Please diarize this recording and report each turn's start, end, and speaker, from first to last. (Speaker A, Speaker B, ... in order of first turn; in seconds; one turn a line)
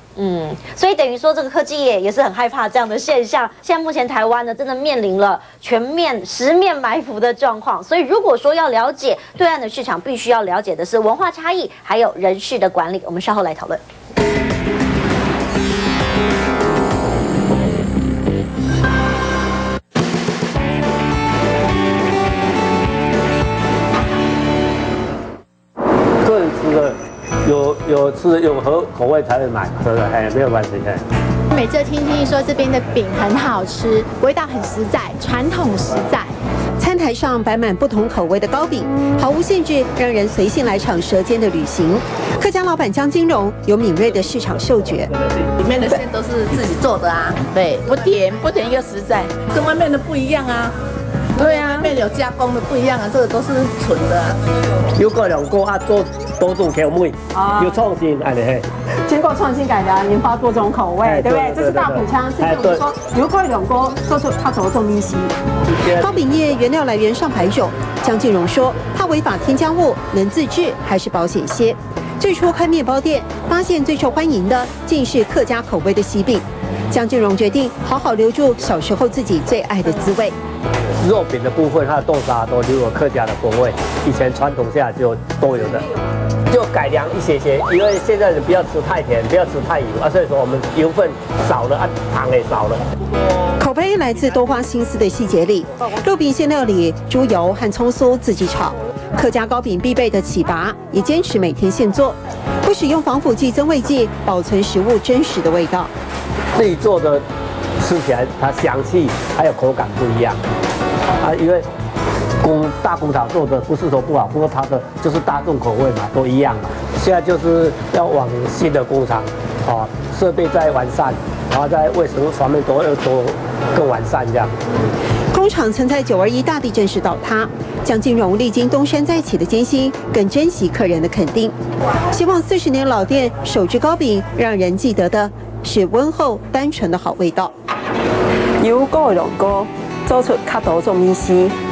Speaker A: 0.2-13.8
Speaker B: 26.2-31.0
Speaker C: 31.5-36.4
Speaker D: 36.8-45.1
Speaker E: 45.6-50.8
Speaker E: 51.3-54.4
Speaker B: 55.0-58.7
Speaker F: 57.3-57.7
Speaker F: 59.0-65.3
Speaker B: 61.0-62.9
Speaker B: 65.7-66.2
Speaker D: 66.0-80.3
Speaker B: 81.0-85.9
Speaker B: 86.5-92.8
Speaker D: 93.6-105.9
Speaker B: 106.5-107.2
Speaker B: 107.8-110.4
Speaker B: 111.2-111.7
Speaker B: 112.4-124.6
Speaker D: 125.3-131.5
Speaker D: 132.1-137.5
Speaker F: 138.6-141.6